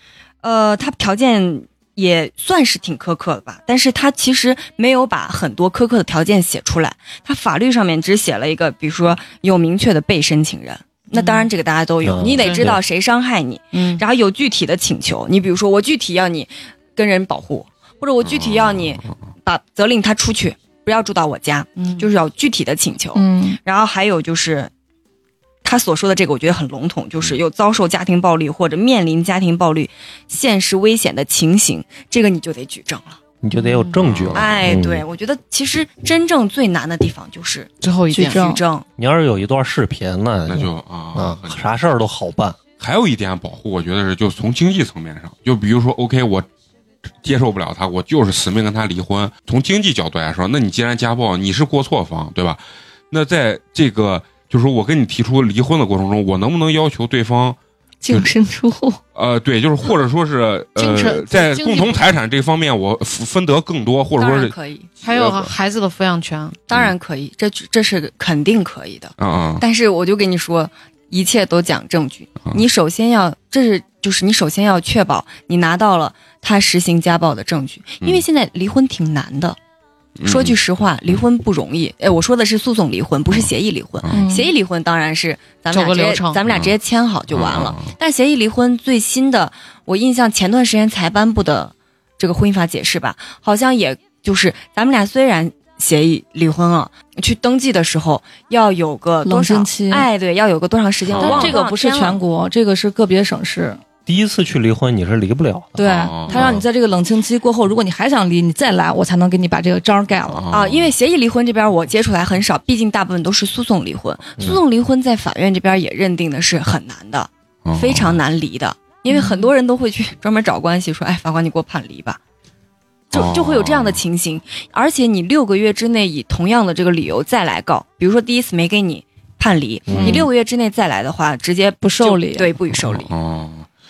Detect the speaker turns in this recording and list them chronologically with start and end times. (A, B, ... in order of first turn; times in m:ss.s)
0:00.4-0:24.7 A
0:11.1-0:11.5 B
0:12.0-0:12.8 C
0:12.2-0:12.8 B
0:13.7-0:14.0 B
0:18.2-0:19.1 D
0:21.8-0:22.1 B
0:23.2-0:23.6 E
0:25.6-0:33.2 A
0:33.4-0:35.0 C
0:33.6-0:34.0 B
0:34.0-0:34.7 D
0:34.3-0:38.8 A
0:37.8-0:38.4 B
0:38.1-0:38.6 E
0:39.0-0:42.6 C
0:40.5-0:41.6 D
0:42.8-0:46.5 D
0:47.2-0:52.6 D
0:53.1-0:57.6 D
0:58.0-0:59.0 E
0:59.2-1:05.5 D
1:00.8-1:02.0 B
1:04.2-1:04.9 A
1:05.0-1:06.6 B
1:06.7-1:19.6 A
1:09.2-1:09.6 D
1:20.2-1:21.2 D
1:20.2-1:42.2 A
1:24.1-1:24.5 E
1:25.7-1:26.4 B
1:26.5-1:26.7 D
1:27.3-1:27.9 D
1:39.2-1:40.1 E
1:41.0-1:41.6 D
1:41.2-1:43.8 E
1:44.1-1:46.6 C
1:45.8-1:50.4 E
1:45.9-1:46.6 D
1:50.3-1:50.9 D
1:50.5-2:02.2 A
1:57.6-1:58.2 D
1:59.1-1:59.5 B
2:03.1-2:04.0 D
2:03.1-2:13.1 A
2:09.9-2:10.3 C
2:09.9-2:10.3 E
2:11.8-2:12.5 E
2:12.7-2:13.7 D